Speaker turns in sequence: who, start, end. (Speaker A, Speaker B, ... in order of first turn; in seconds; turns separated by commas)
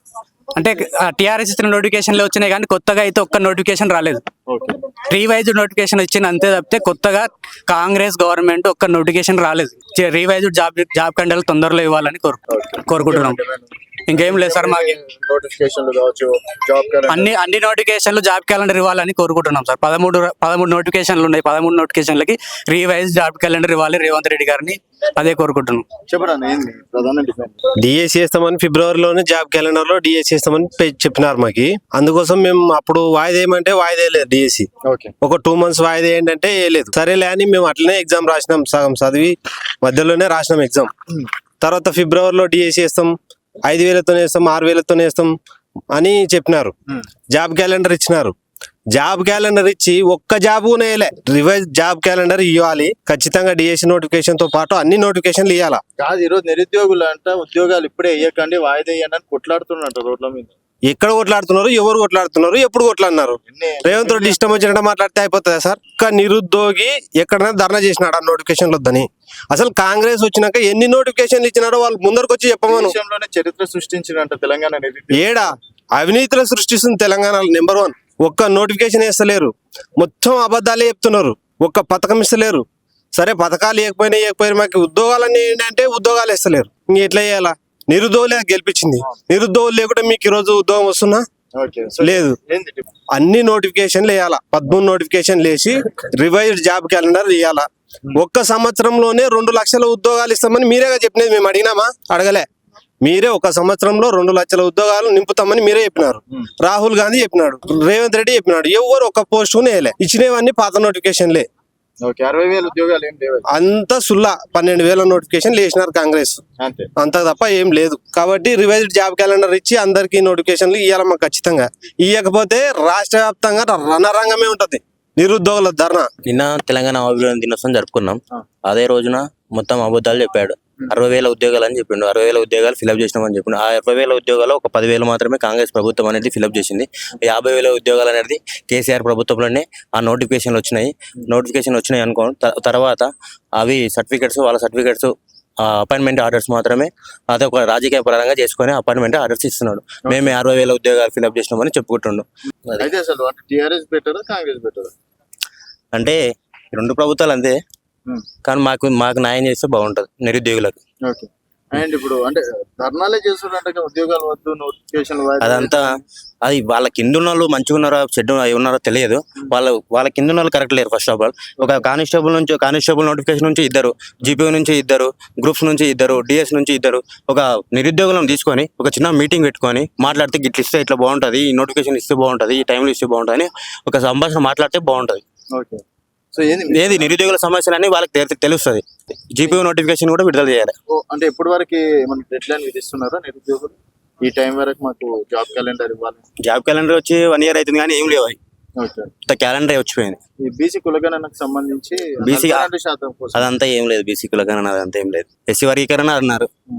Speaker A: 0.6-4.2, Speaker B: 4.5-4.8, Speaker A: 5.0-13.4, Speaker B: 12.5-17.3, Speaker A: 14.1-15.0, Speaker A: 17.1-25.9, Speaker B: 26.1-27.6, Speaker C: 27.8-34.7, Speaker B: 34.9-35.1, Speaker C: 35.2-40.9, Speaker C: 41.6-43.1, Speaker C: 43.7-45.4, Speaker C: 45.9-46.7, Speaker C: 47.3-48.3, Speaker C: 49.0-55.8, Speaker B: 56.0-60.5, Speaker C: 60.9-73.0, Speaker B: 63.5-64.4, Speaker B: 72.7-75.5, Speaker C: 75.1-82.6, Speaker C: 83.2-91.2, Speaker B: 91.5-92.9, Speaker C: 92.0-92.4, Speaker C: 93.1-102.5, Speaker C: 103.0-111.5, Speaker B: 112.0-113.5, Speaker C: 113.5-116.4, Speaker B: 116.6-116.9, Speaker C: 117.0-126.1, Speaker D: 126.3-152.9, Speaker B: 150.1-150.3, Speaker B: 152.8-154.9, Speaker D: 155.9-156.2, Speaker D: 156.7-157.6, Speaker D: 158.4-160.8, Speaker B: 161.1-165.9, Speaker D: 165.4-165.9, Speaker D: 166.4-185.2, Speaker B: 185.5-185.8, Speaker B: 186.3-187.2, Speaker D: 186.7-190.8, Speaker B: 190.9-196.2, Speaker D: 196.4-198.4, Speaker B: 198.8-199.1, Speaker D: 199.3-200.2, Speaker B: 200.4-203.5, Speaker D: 202.2-202.7, Speaker D: 203.3-206.5